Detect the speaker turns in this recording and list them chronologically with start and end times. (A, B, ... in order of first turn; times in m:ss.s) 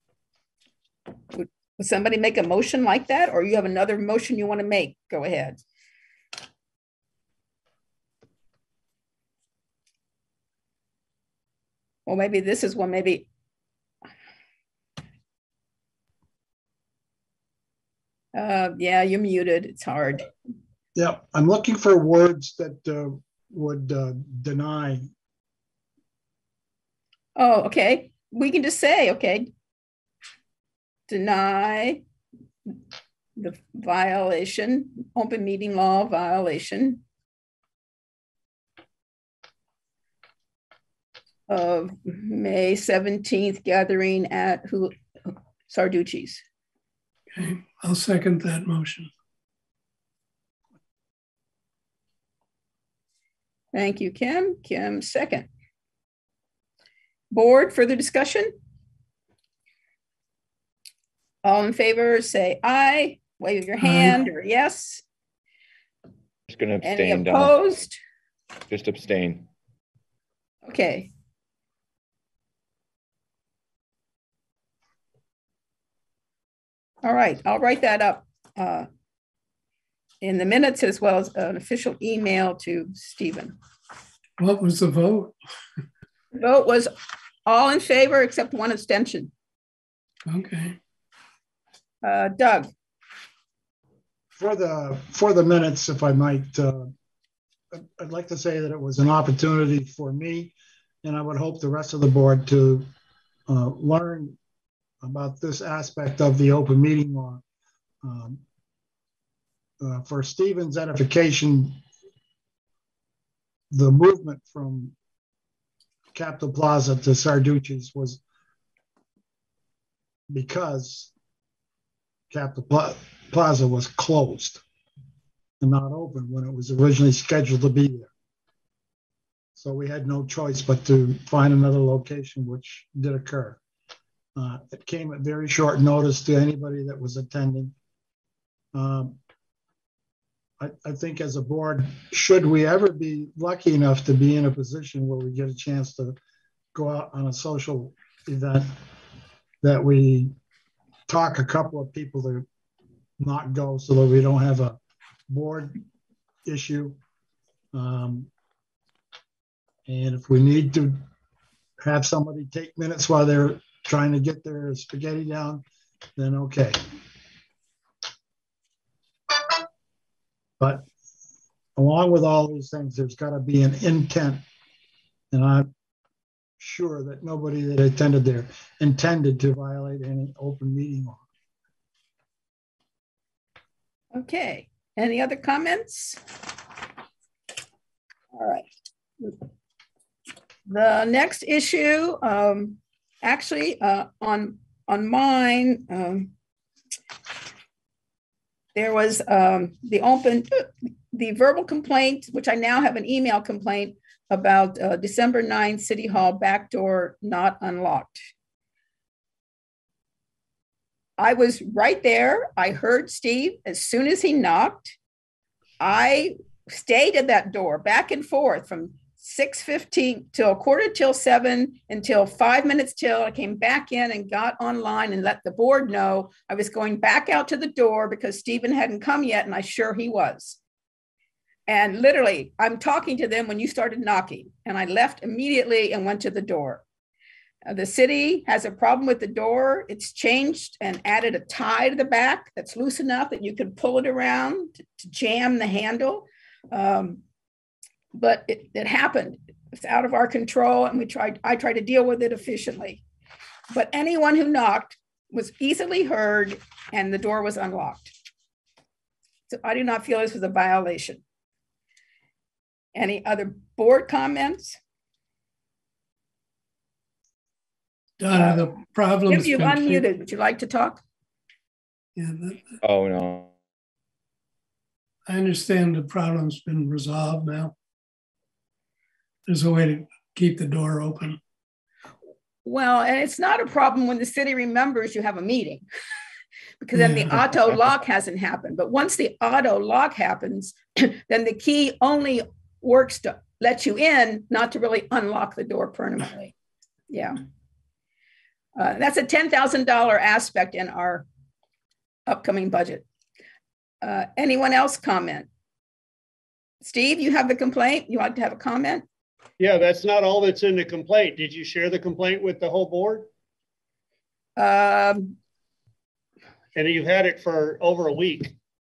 0:01.3-0:05.6 A
0:12.0-0:13.3 A
0:18.3-0:20.3 A
0:20.9-0:25.1 B
0:27.4-0:29.5 A
0:31.1-0:32.0 A
0:33.4-0:37.0 A
0:41.5-0:44.9 A
0:45.7-0:46.4 A
0:47.3-0:49.1 C
0:53.7-0:55.5 A
0:57.3-0:58.5 A
1:01.4-1:05.0 A
1:03.8-1:04.2 C
1:06.5-1:07.5 D
1:06.8-1:08.0 A
1:08.7-1:09.5 D
1:10.6-1:11.1 A
1:17.0-1:18.9 A
1:20.2-1:23.5 A
1:24.4-1:25.3 C
1:26.3-1:26.9 A
1:27.4-1:29.3 A
1:30.3-1:30.8 C
1:32.0-1:32.7 A
1:34.4-1:36.9 B
1:37.7-1:42.9 B
1:43.5-1:44.4 B
1:45.0-1:47.4 B
1:48.0-1:48.4 B
1:49.8-1:51.8 B
1:53.7-1:54.9 B
1:56.1-1:58.2 B
2:00.3-2:01.1 B
2:02.3-2:04.6 B
2:05.6-2:08.1 B
2:09.6-2:13.6 B
2:14.4-2:17.7 B
2:18.7-2:19.2 B
2:20.6-2:26.2 B
2:26.7-2:28.7 B
2:29.6-2:30.3 B
2:31.1-2:32.4 B
2:33.2-2:34.8 B
2:35.3-2:35.8 B
2:36.4-2:37.0 B
2:37.7-2:38.3 B
2:39.9-2:41.0 B
2:41.8-2:45.6 B
2:46.2-2:46.8 B
2:50.6-2:50.8 B
2:51.8-2:54.4 B
2:55.3-2:55.7 B
2:56.6-3:01.2 B
3:04.1-3:06.2 A
3:08.3-3:08.7 A
3:10.7-3:16.3 A
3:18.7-3:28.2 A
3:31.2-3:35.0 A
3:35.8-3:50.6 A
3:51.7-3:56.8 A
3:57.6-4:07.2 A
4:08.1-4:13.0 A
4:13.7-4:18.1 A
4:19.5-4:21.2 A
4:22.9-4:24.8 A
4:28.2-4:30.1 C
4:28.3-4:28.7 A
4:29.3-4:31.0 A
4:32.2-4:32.8 C
4:32.8-4:33.5 D
4:35.3-4:37.7 C
4:39.5-4:41.4 C
4:42.6-4:45.8 A
4:46.8-4:56.5 A
4:46.9-4:47.4 C
4:57.1-4:57.4 A
4:58.8-5:01.2 A
5:02.3-5:03.0 A
5:04.0-5:05.5 A
5:06.8-5:09.0 A
5:09.6-5:13.3 E
5:14.6-5:15.4 A
5:16.7-5:18.5 E